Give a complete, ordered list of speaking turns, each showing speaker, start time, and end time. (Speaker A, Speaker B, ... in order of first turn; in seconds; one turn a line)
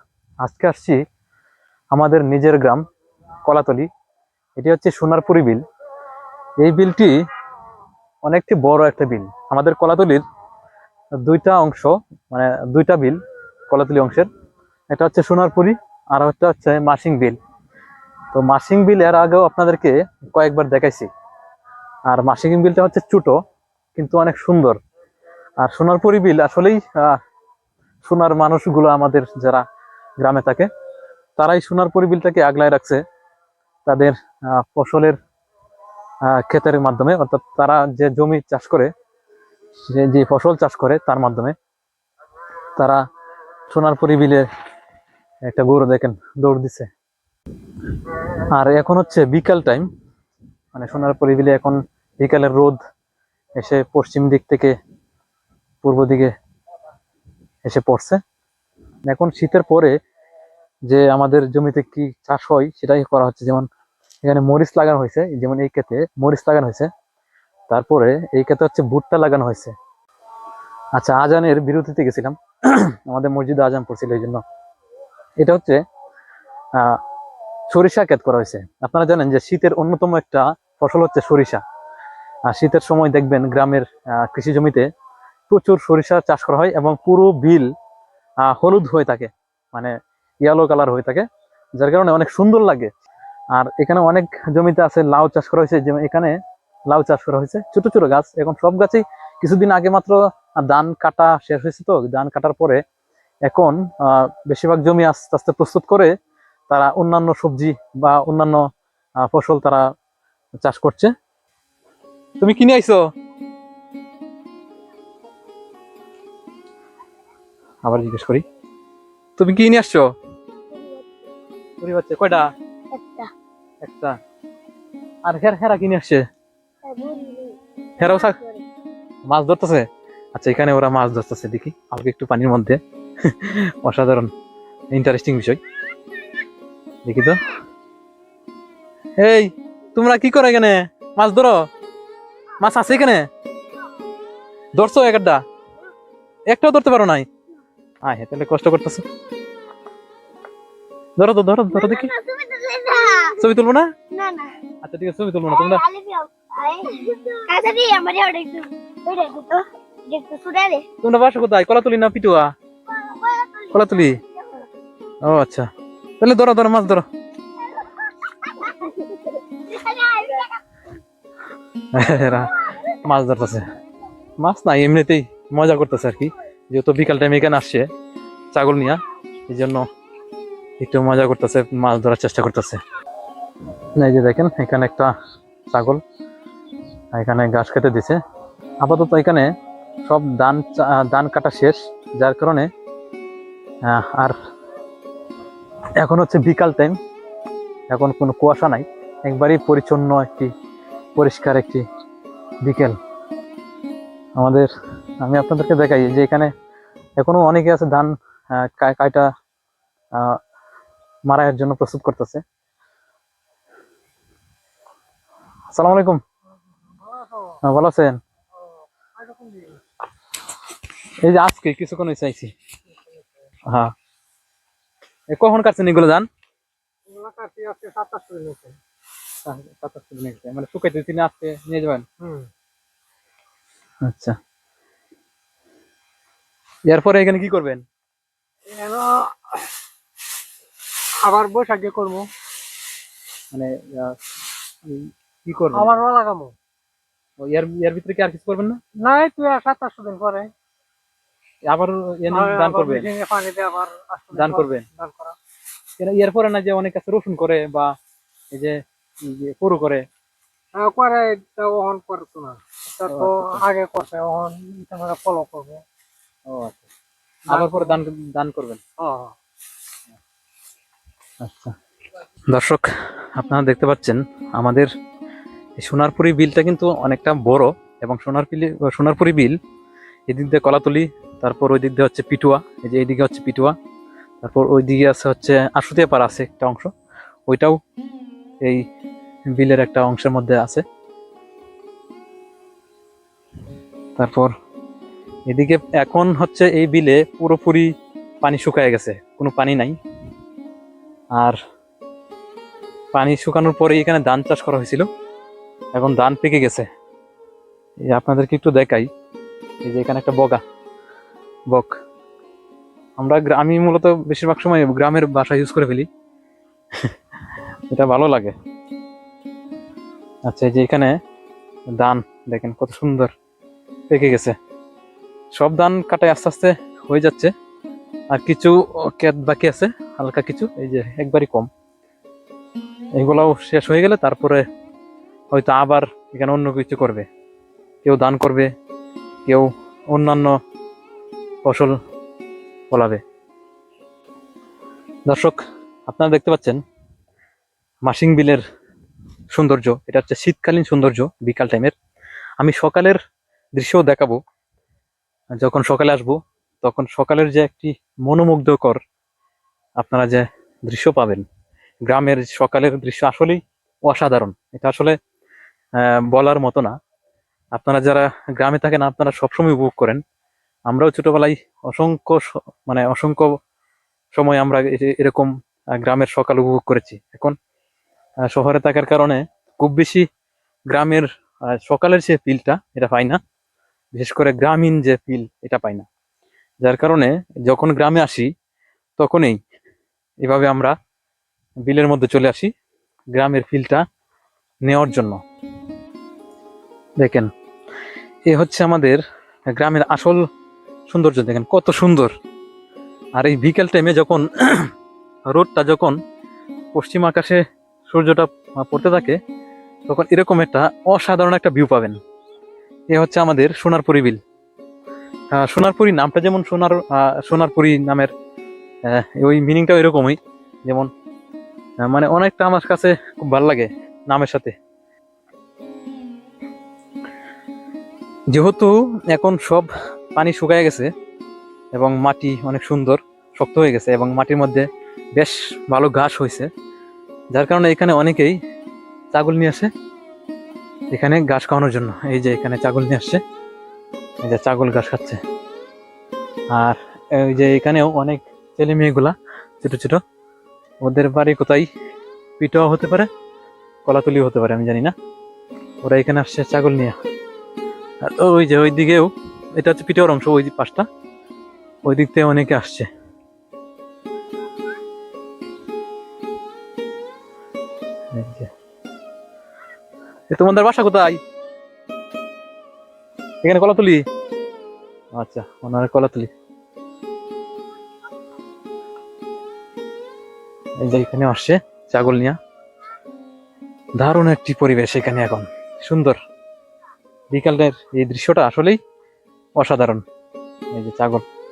Speaker A: 0.4-1.0
Speaker A: 1.9-2.8
Speaker A: 3.4-3.9
Speaker A: 4.6-5.6
Speaker A: 6.6-7.2
Speaker A: 8.2-10.2
Speaker A: 11.2-14.3
Speaker A: 14.9-17.4
Speaker A: 18.3-21.1
Speaker A: 22.1-23.4
Speaker A: 23.9-24.8
Speaker A: 25.6-27.2
Speaker A: 28.0-29.6
Speaker A: 30.2-30.7
Speaker A: 31.4-33.0
Speaker A: 33.9-35.2
Speaker A: 36.2-38.9
Speaker A: 39.8-41.5
Speaker A: 43.7-44.5
Speaker A: 45.5-46.9
Speaker A: 48.5-49.9
Speaker A: 50.7-52.8
Speaker A: 53.6-54.7
Speaker A: 55.8-56.3
Speaker A: 57.6-58.2
Speaker A: 59.1-60.0
Speaker A: 60.9-63.7
Speaker A: 64.2-66.9
Speaker A: 67.7-69.7
Speaker A: 71.0-74.4
Speaker A: 75.4-75.8
Speaker A: 76.8-77.0
Speaker A: 77.7-81.6
Speaker A: 82.5-84.9
Speaker A: 85.5-87.7
Speaker A: 88.4-89.9
Speaker A: 90.4-91.2
Speaker A: 91.8-92.9
Speaker A: 93.5-96.3
Speaker A: 96.9-102.8
Speaker A: 103.5-106.1
Speaker A: 106.7-108.6
Speaker A: 109.2-109.8
Speaker A: 110.6-111.1
Speaker A: 112.4-113.0
Speaker A: 117.8-118.4
Speaker A: 119.4-120.1
Speaker B: 120.7-121.0
Speaker A: 121.8-122.5
Speaker B: 122.9-123.3
Speaker A: 123.8-124.1
Speaker A: 125.2-126.2
Speaker B: 126.8-128.6
Speaker A: 128.0-128.4
Speaker A: 129.2-134.3
Speaker A: 134.9-135.6
Speaker A: 137.0-137.4
Speaker A: 139.2-141.6
Speaker A: 142.6-143.2
Speaker A: 144.8-145.4
Speaker A: 146.5-147.3
Speaker A: 148.0-149.0
Speaker A: 151.2-152.1
Speaker B: 151.7-153.4
Speaker A: 153.4-153.9
Speaker B: 154.1-154.5
Speaker A: 154.8-155.8
Speaker B: 155.5-160.8
Speaker A: 161.0-162.5
Speaker B: 162.9-164.6
Speaker A: 163.7-164.2
Speaker A: 165.2-165.7
Speaker A: 166.2-167.0
Speaker B: 168.4-170.6
Speaker A: 171.9-173.7
Speaker A: 174.4-177.8
Speaker A: 178.5-179.8
Speaker A: 180.8-182.8
Speaker A: 184.0-185.1
Speaker A: 185.7-186.0
Speaker A: 187.1-188.2
Speaker A: 188.8-189.5
Speaker A: 190.1-192.7
Speaker A: 193.8-194.3
Speaker A: 196.0-197.0
Speaker A: 197.9-200.5
Speaker A: 201.2-201.8
Speaker A: 202.6-202.9
Speaker A: 204.4-204.7
Speaker A: 205.2-206.5
Speaker A: 207.2-209.3
Speaker A: 211.3-212.4
Speaker A: 215.7-216.2
Speaker C: 217.0-217.6
Speaker A: 217.6-218.2
Speaker C: 219.2-219.8
Speaker A: 221.2-222.5
Speaker A: 225.3-226.3
Speaker C: 227.1-228.8
Speaker A: 229.4-232.0
Speaker C: 232.2-232.5
Speaker A: 234.0-234.4
Speaker A: 236.9-237.8
Speaker C: 238.7-239.6
Speaker C: 241.2-242.3
Speaker A: 243.5-244.2
Speaker A: 244.8-246.0
Speaker C: 245.7-246.5
Speaker A: 247.4-248.8
Speaker C: 249.0-250.5
Speaker A: 251.7-253.1
Speaker C: 252.3-255.3
Speaker A: 254.3-254.8
Speaker A: 256.0-257.9
Speaker A: 258.5-260.0
Speaker C: 260.7-265.8
Speaker A: 263.1-263.6
Speaker A: 266.5-266.9
Speaker C: 267.5-268.0
Speaker A: 267.5-268.8
Speaker C: 269.0-269.3
Speaker A: 271.4-271.8
Speaker A: 272.5-274.9
Speaker A: 275.8-279.6
Speaker A: 280.3-283.7
Speaker A: 284.4-286.9
Speaker A: 287.5-287.8
Speaker A: 289.5-290.8
Speaker A: 294.1-294.5
Speaker A: 295.5-297.9
Speaker A: 298.4-300.0
Speaker A: 303.1-305.1
Speaker A: 305.9-306.9
Speaker A: 308.1-309.1
Speaker A: 309.8-310.6
Speaker A: 311.7-311.9
Speaker A: 313.2-316.1
Speaker A: 317.9-318.5
Speaker A: 320.5-321.1
Speaker A: 321.9-323.3
Speaker A: 324.1-324.5
Speaker A: 325.5-327.5
Speaker A: 328.3-331.7
Speaker A: 333.2-334.6
Speaker A: 335.5-337.3
Speaker A: 338.0-338.7
Speaker A: 339.5-340.6
Speaker A: 341.6-342.0
Speaker A: 342.9-343.2
Speaker A: 345.3-346.8
Speaker A: 348.1-348.6
Speaker A: 349.5-351.9
Speaker A: 352.6-353.2
Speaker A: 353.7-354.4
Speaker A: 355.5-359.0
Speaker A: 360.0-361.4
Speaker A: 362.1-365.2
Speaker A: 366.0-366.9
Speaker A: 367.7-370.2
Speaker A: 370.9-373.6
Speaker A: 374.3-377.6
Speaker A: 378.5-380.2
Speaker A: 380.9-383.4
Speaker A: 384.1-386.1
Speaker A: 386.8-388.5
Speaker A: 389.2-389.6
Speaker A: 390.4-390.9
Speaker A: 391.8-392.7
Speaker A: 393.3-394.0
Speaker A: 394.9-395.4
Speaker A: 397.2-397.5
Speaker A: 398.5-400.4
Speaker A: 401.1-402.3
Speaker A: 403.4-404.9
Speaker A: 405.5-406.2
Speaker A: 406.9-409.4
Speaker A: 410.1-412.2
Speaker A: 413.1-414.4
Speaker A: 415.5-418.3
Speaker A: 419.1-421.1
Speaker A: 422.0-424.8
Speaker A: 428.5-431.1
Speaker A: 431.9-436.7
Speaker A: 437.5-438.6
Speaker A: 439.3-439.9
Speaker A: 441.1-443.4
Speaker A: 444.4-445.4
Speaker A: 446.7-450.2
Speaker A: 451.0-451.9
Speaker A: 452.6-453.3
Speaker A: 454.0-455.1
Speaker A: 456.0-457.1
Speaker A: 458.2-461.1
Speaker A: 462.0-463.1
Speaker A: 468.3-468.7
Speaker A: 470.5-471.4
Speaker A: 473.6-474.2
Speaker A: 475.4-476.5
Speaker A: 481.0-482.6
Speaker A: 484.2-486.4
Speaker A: 487.5-489.0
Speaker A: 489.8-490.2
Speaker A: 490.9-491.4